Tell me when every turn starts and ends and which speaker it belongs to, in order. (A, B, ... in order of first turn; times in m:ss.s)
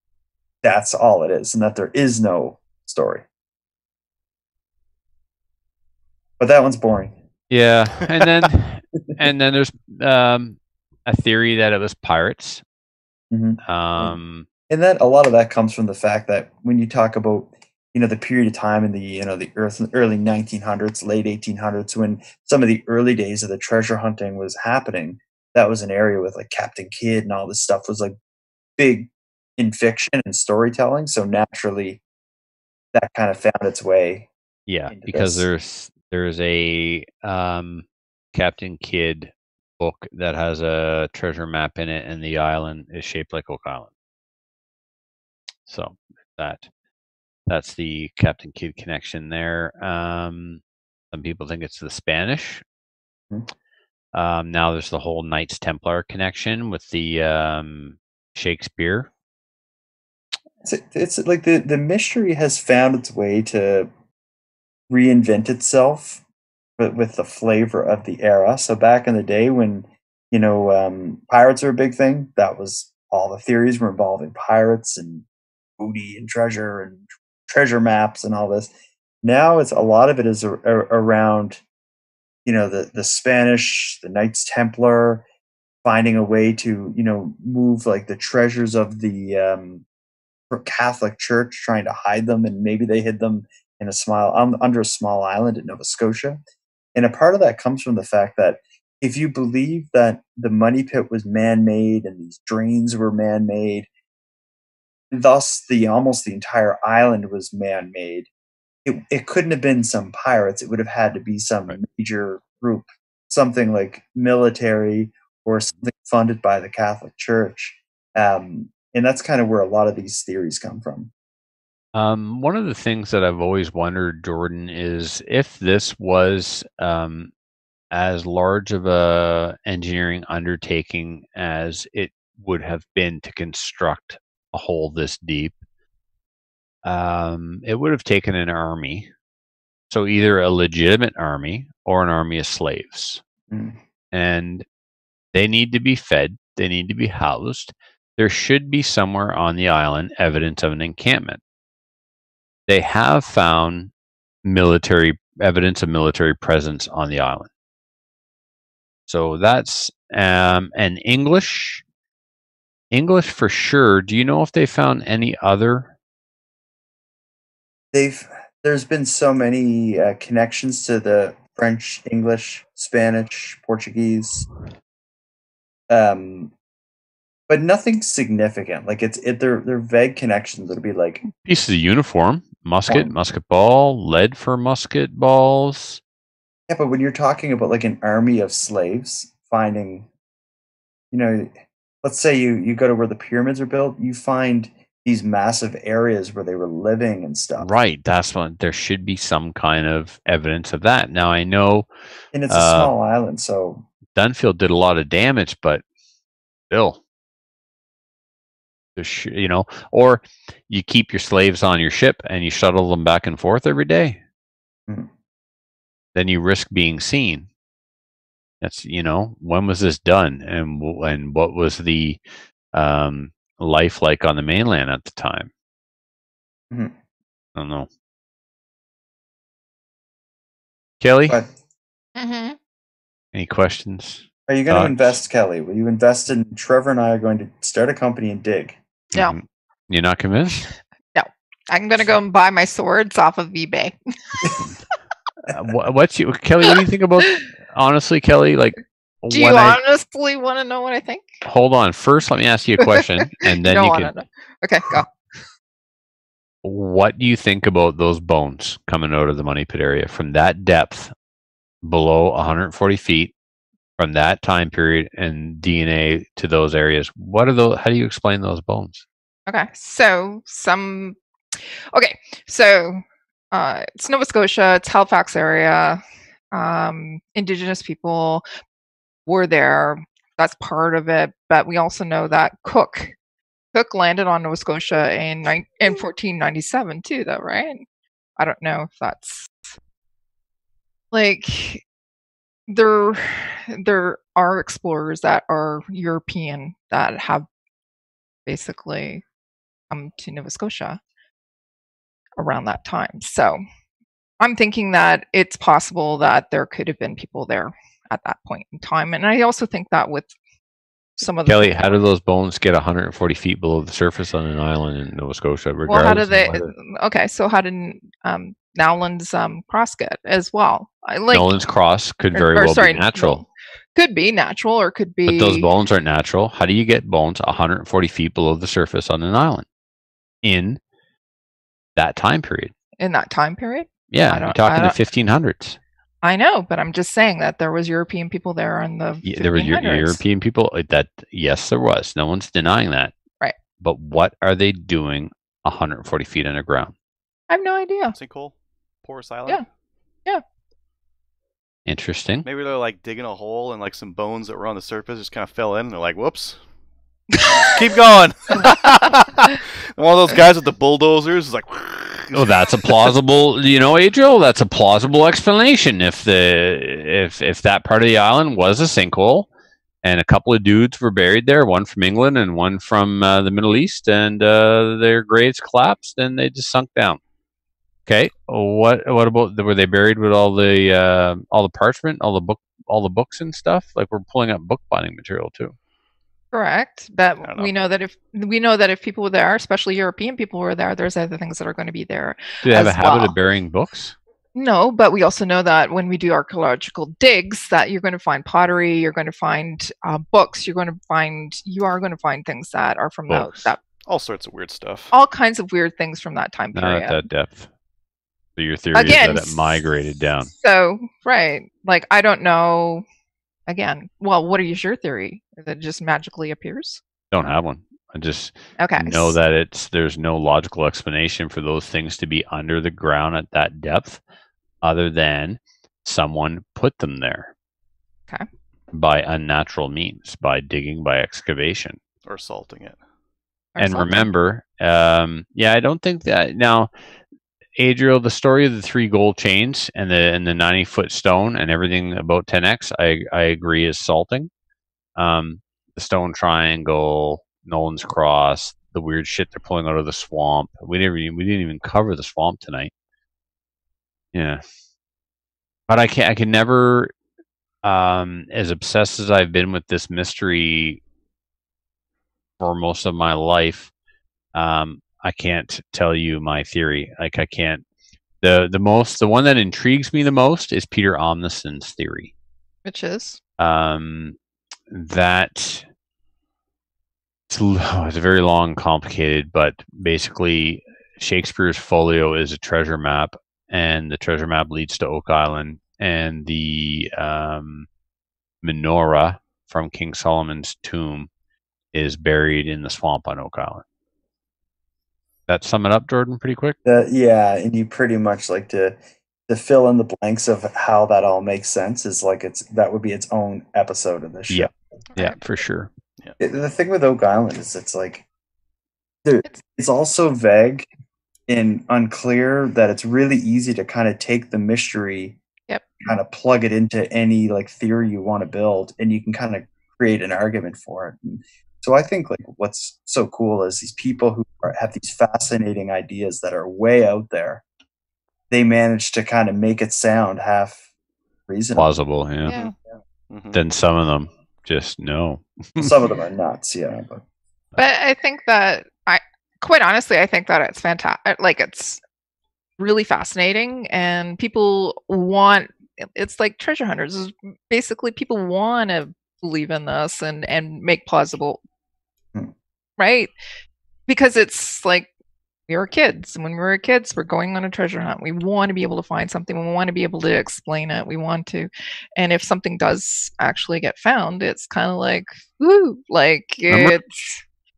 0:00.6-0:03.2 A
0:06.4-0:07.1 A
0:07.5-0:12.6 B
0:13.3-0:14.2 A
0:13.6-0:14.5 B
0:14.7-0:28.2 A
0:28.8-0:32.0 A
0:32.9-0:34.3 A
0:34.7-0:43.9 B
0:34.9-0:35.5 A
0:45.7-0:46.7 B
0:47.5-0:52.6 B
0:54.1-0:59.1 B
1:00.6-1:03.9 A
1:04.9-1:06.2 A
1:06.8-1:15.2 A
1:15.8-1:18.7 A
1:19.2-1:21.6 A
1:22.4-1:25.2 A
1:25.8-1:29.8 A
1:30.5-1:36.4 A
1:36.9-1:43.9 A
1:45.1-1:48.3 A
1:48.8-2:01.1 A
2:01.9-2:07.3 B
2:07.9-2:15.6 B
2:16.8-2:19.1 B
2:19.9-2:23.2 B
2:23.5-2:23.8 A
2:24.1-2:24.6 B
2:25.3-2:31.4 B
2:32.7-2:33.9 B
2:34.4-2:37.5 B
2:39.1-2:41.8 B
2:42.9-2:45.9 B
2:47.9-2:54.5 A
2:55.9-2:56.5 A
2:57.5-3:01.2 A
3:01.3-3:06.0 B
3:02.9-3:03.1 A
3:06.7-3:10.1 A
3:11.1-3:17.7 A
3:17.6-3:21.9 B
3:22.3-3:23.8 A
3:22.5-3:22.9 B
3:24.1-3:25.8 B
3:26.7-3:27.0 B
3:29.0-3:34.2 B
3:36.1-3:37.5 B
3:38.6-3:42.2 B
3:42.7-3:45.5 B
3:47.6-3:47.9 B
3:51.0-3:51.4 B
3:52.2-3:52.6 C
3:53.3-3:55.2 B
3:54.5-3:58.8 A
3:59.1-4:00.7 B
4:01.1-4:04.6 C
4:05.4-4:09.8 B
4:09.3-4:11.3 C
4:11.4-4:14.1 B
4:12.8-4:15.1 C
4:16.6-4:21.1 B
4:21.8-4:23.3 B
4:24.0-4:29.0 B
4:29.5-4:36.0 C
4:36.5-4:38.4 C
4:39.2-4:43.1 C
4:43.7-4:47.8 C
4:48.4-4:49.8 C
4:51.1-4:51.8 C
4:52.7-4:57.4 C
4:58.4-4:59.2 C
4:59.9-5:01.0 C
5:02.4-5:03.6 C
5:04.4-5:10.3 C
5:11.2-5:11.8 C
5:11.4-5:16.7 B
5:15.9-5:21.5 C
5:21.3-5:23.4 B
5:22.3-5:25.6 C
5:25.2-5:29.6 B
5:30.4-5:30.8 B
5:32.0-5:32.7 B
5:33.0-5:35.0 C
5:34.1-5:35.8 B
5:36.2-5:40.2 C
5:39.2-5:43.1 B
5:43.8-5:46.9 B
5:47.5-5:48.2 C
5:48.1-5:49.6 D
5:51.8-5:52.4 B
5:52.4-5:56.6 D
5:57.3-5:57.8 C
5:57.4-6:03.1 D
6:02.3-6:09.5 B
6:10.0-6:17.2 B
6:18.0-6:25.7 B
6:26.5-6:33.3 C
6:27.4-6:27.7 D
6:32.6-6:34.2 B
6:34.5-6:43.8 C
6:43.3-6:43.7 B
6:44.0-6:45.1 D
6:45.1-6:47.2 C
6:46.7-6:47.7 B
6:48.6-6:50.5 B
6:48.9-6:49.8 C
6:50.5-6:53.0 C
6:53.7-6:57.0 C
6:57.3-7:04.2 B
6:58.8-6:59.4 C
7:04.8-7:07.5 B
7:08.9-7:12.0 B
7:12.2-7:13.0 D
7:13.7-7:14.3 C
7:13.8-7:16.9 B
7:17.8-7:24.5 B
7:25.2-7:32.9 B
7:34.3-7:34.6 B
7:35.9-7:37.1 B
7:37.8-7:41.0 B
7:42.6-7:43.9 B
7:44.5-7:47.8 B
7:48.4-7:52.3 B
7:52.8-7:53.4 C
7:53.6-7:54.4 B
7:54.9-7:55.8 B
7:57.5-8:07.9 B
8:08.6-8:11.3 B
8:11.9-8:13.8 B
8:15.5-8:16.8 B
8:16.8-8:19.0 A
8:19.5-8:24.7 A
8:24.5-8:25.9 B
8:25.1-8:25.4 C
8:26.4-8:28.2 A
8:29.2-8:30.9 A
8:31.5-8:35.4 A
8:36.0-8:47.6 A
8:48.5-8:50.8 A
8:51.5-8:51.9 A
8:51.8-8:52.5 B
8:52.4-8:52.7 C
8:52.5-8:52.7 D
8:53.3-8:53.6 D
8:53.5-8:55.9 B
8:55.8-8:57.2 A
8:57.8-9:02.0 C
9:02.8-9:11.6 C
9:13.0-9:13.3 C
9:14.1-9:15.1 C
9:15.7-9:27.0 C
9:26.7-9:27.0 B